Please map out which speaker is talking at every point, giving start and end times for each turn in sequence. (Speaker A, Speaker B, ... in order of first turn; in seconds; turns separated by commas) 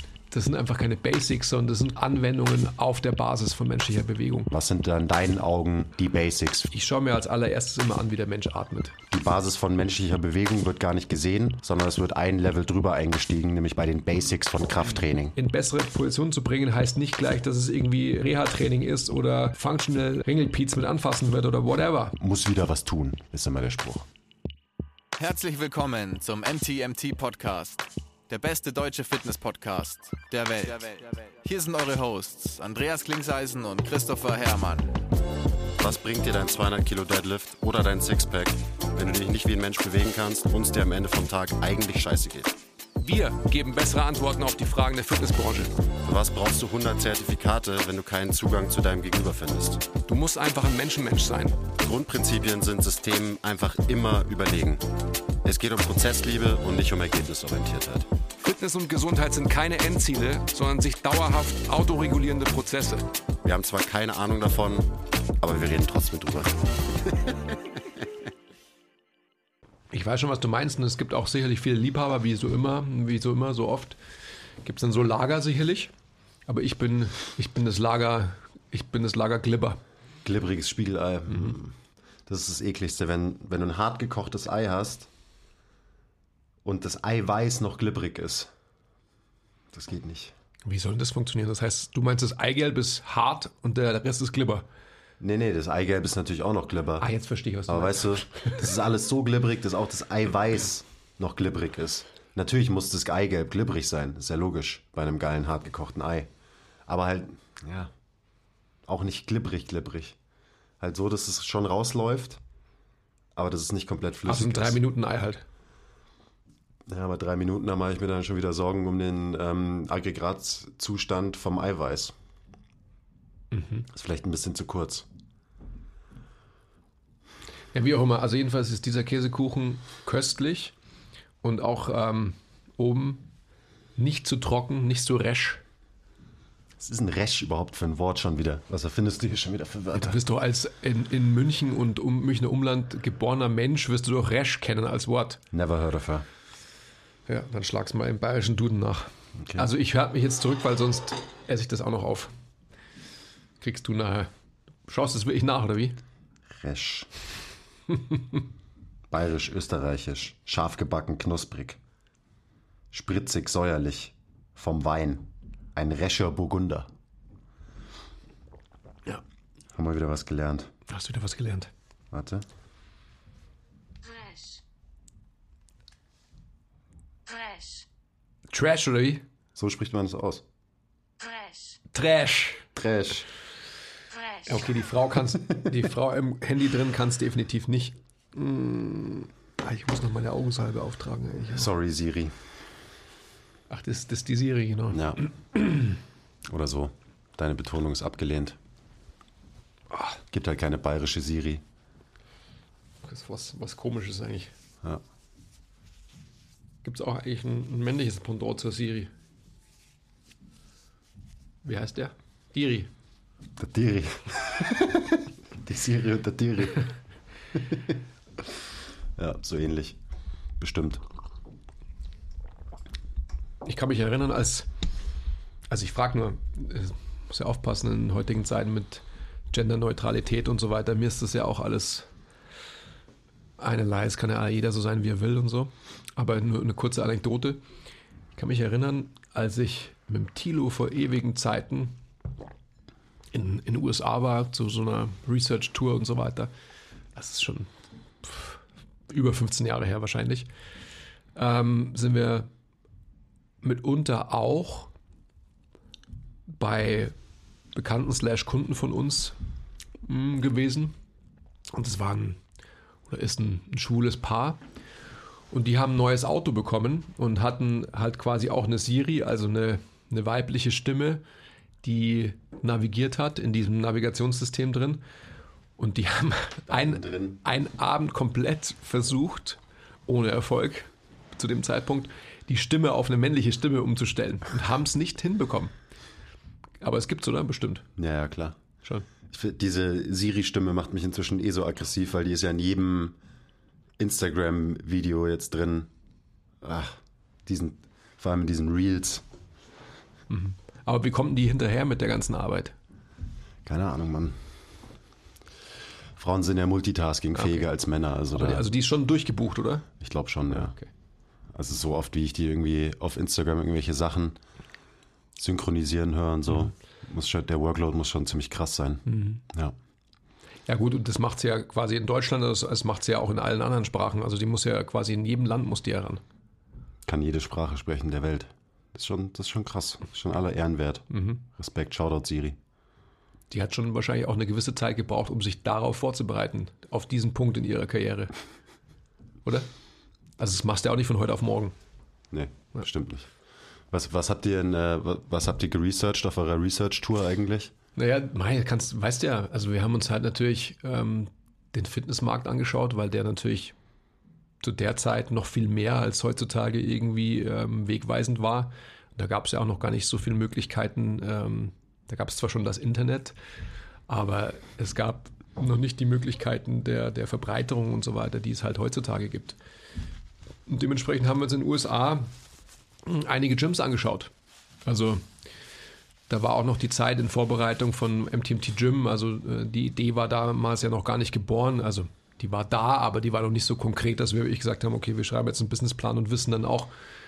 Speaker A: 0.3-4.5, Speaker B: 4.5-6.7, Speaker A: 6.7-8.9, Speaker B: 9.1-15.3, Speaker A: 15.3-22.2, Speaker B: 22.2-24.1, Speaker C: 25.2-34.9, Speaker B: 35.8-42.6, Speaker A: 43.0-45.7, Speaker B: 46.0-49.8, Speaker A: 50.0-51.6, Speaker B: 51.8-54.8, Speaker B: 55.4-58.1, Speaker A: 58.4-63.1, Speaker B: 63.4-67.3, Speaker A: 69.9-74.0, Speaker A: 74.6-75.9, Speaker A: 76.5-79.8, Speaker B: 80.2-85.1, Speaker B: 86.6-88.5, Speaker B: 89.7-90.3, Speaker A: 90.7-94.7, Speaker B: 95.2-97.1, Speaker A: 97.0-98.6, Speaker B: 97.7-106.3, Speaker B: 106.9-107.9, Speaker B: 108.9-110.2, Speaker B: 110.8-112.4, Speaker B: 113.3-114.8, Speaker A: 114.2-115.4, Speaker B: 116.9-122.1, Speaker A: 123.5-123.8, Speaker B: 123.9-125.1, Speaker A: 127.7-130.7, Speaker A: 131.4-133.2, Speaker A: 133.9-135.6, Speaker B: 136.8-140.2, Speaker A: 139.9-145.4, Speaker B: 145.5-146.2, Speaker A: 147.3-152.3, Speaker A: 153.6-154.3, Speaker A: 154.9-156.0, Speaker B: 156.5-157.1, Speaker B: 159.1-161.8, Speaker B: 162.9-166.9, Speaker B: 169.7-170.7, Speaker A: 170.9-171.7, Speaker B: 172.1-172.4, Speaker A: 178.5-179.2, Speaker B: 179.5-180.4, Speaker A: 181.9-182.7, Speaker B: 182.8-183.3, Speaker A: 184.4-191.7, Speaker B: 191.5-192.4, Speaker A: 193.7-195.9, Speaker B: 194.9-195.2, Speaker B: 196.4-198.6, Speaker B: 200.3-201.6, Speaker A: 203.1-204.5, Speaker A: 206.8-209.1, Speaker A: 211.6-212.9, Speaker B: 213.6-216.9, Speaker B: 219.2-220.0, Speaker B: 220.6-221.0, Speaker A: 223.6-224.7, Speaker A: 225.7-232.1, Speaker A: 233.6-237.6, Speaker A: 238.3-241.9, Speaker A: 243.3-246.5, Speaker A: 247.2-247.7, Speaker A: 248.2-250.5, Speaker A: 251.3-252.5, Speaker A: 253.6-254.9, Speaker A: 256.5-257.1, Speaker A: 257.7-259.3, Speaker A: 260.0-260.9, Speaker A: 261.7-262.4, Speaker A: 263.1-264.6, Speaker A: 265.5-271.2, Speaker A: 271.8-275.0, Speaker A: 275.8-285.7, Speaker B: 276.7-277.4, Speaker A: 286.8-287.9, Speaker B: 288.0-288.6, Speaker B: 289.3-293.1, Speaker B: 294.0-295.9, Speaker B: 296.6-299.2, Speaker A: 300.3-302.8, Speaker B: 303.6-304.4, Speaker B: 306.2-308.7, Speaker A: 307.4-307.6, Speaker A: 308.3-309.9, Speaker B: 310.0-310.7, Speaker A: 310.5-310.9, Speaker B: 311.5-314.4, Speaker B: 315.4-319.7, Speaker A: 319.1-319.4, Speaker A: 320.7-326.2, Speaker B: 327.1-332.6, Speaker A: 331.1-331.4, Speaker A: 333.5-338.3, Speaker A: 339.4-339.7, Speaker A: 340.4-341.7, Speaker B: 342.3-343.3, Speaker B: 343.9-347.7, Speaker A: 347.9-353.7, Speaker A: 354.6-363.3, Speaker A: 364.1-369.6, Speaker A: 370.7-372.3, Speaker A: 373.0-374.3, Speaker A: 374.9-375.2, Speaker A: 376.3-386.9